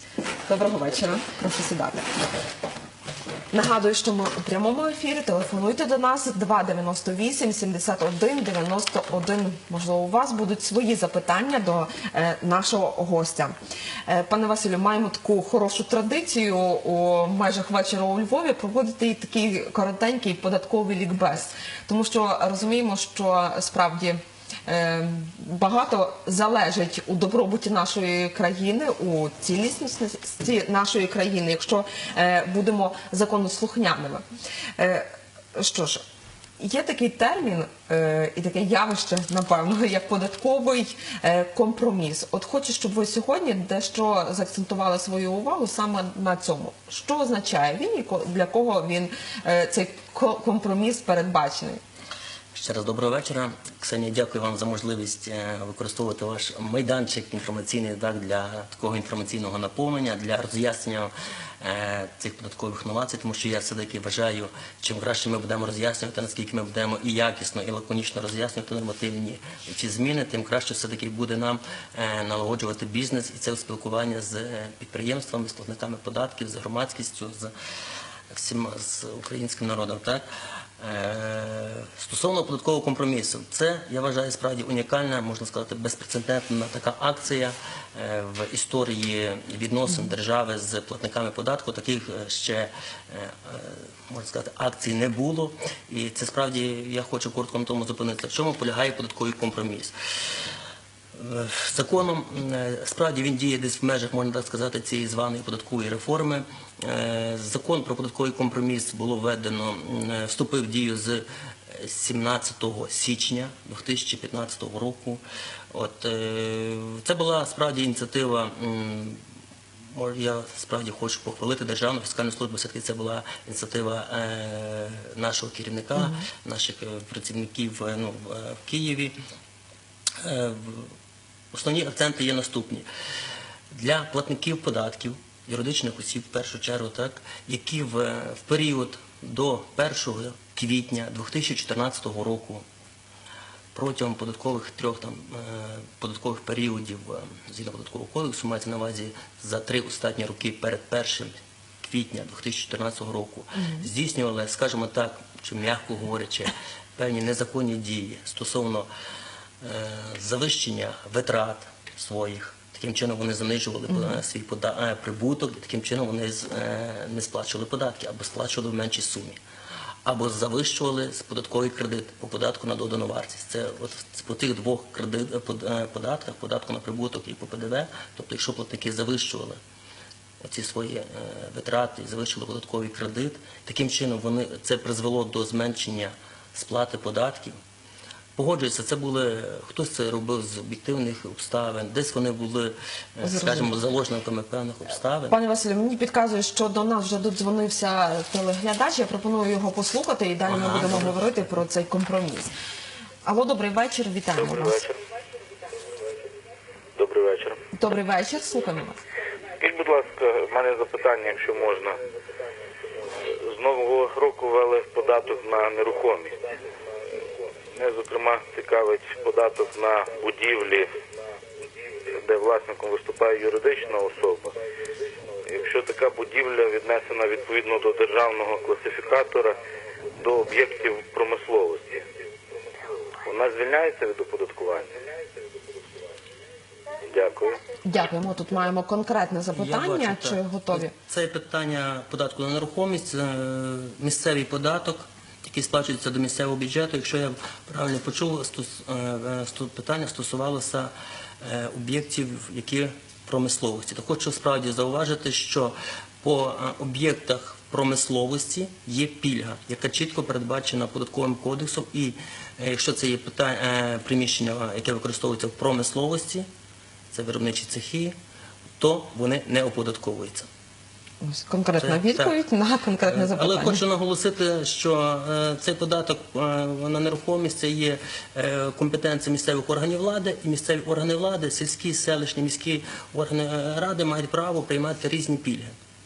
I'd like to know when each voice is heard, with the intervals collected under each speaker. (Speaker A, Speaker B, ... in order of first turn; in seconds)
Speaker A: 0.4-2.0, 3.5-13.5, 14.1-34.2, 34.8-36.0, 36.6-51.8, 126.0-126.2, 193.2-193.7, 195.3-202.5, 203.2-204.8, 207.7-209.0, 237.8-240.9, 271.2-273.8
Speaker B: 52.5-77.5, 78.3-80.2, 80.8-99.9, 101.1-119.2, 119.9-129.2, 130.2-130.9, 131.5-132.8, 133.7-142.6, 143.7-158.9, 159.6-169.4, 170.0-179.6, 180.4-187.5, 188.3-195.4, 200.5-201.2, 239.5-266.4, 267.1-268.1, 268.8-270.5, 271.8-272.4, 273.0-285.7
Speaker C: 204.3-205.0, 206.9-207.6, 209.6-212.0, 213.2-216.4, 217.7-220.9, 222.1-224.6, 225.4-229.6, 230.2-232.0, 233.2-234.9, 237.1-237.6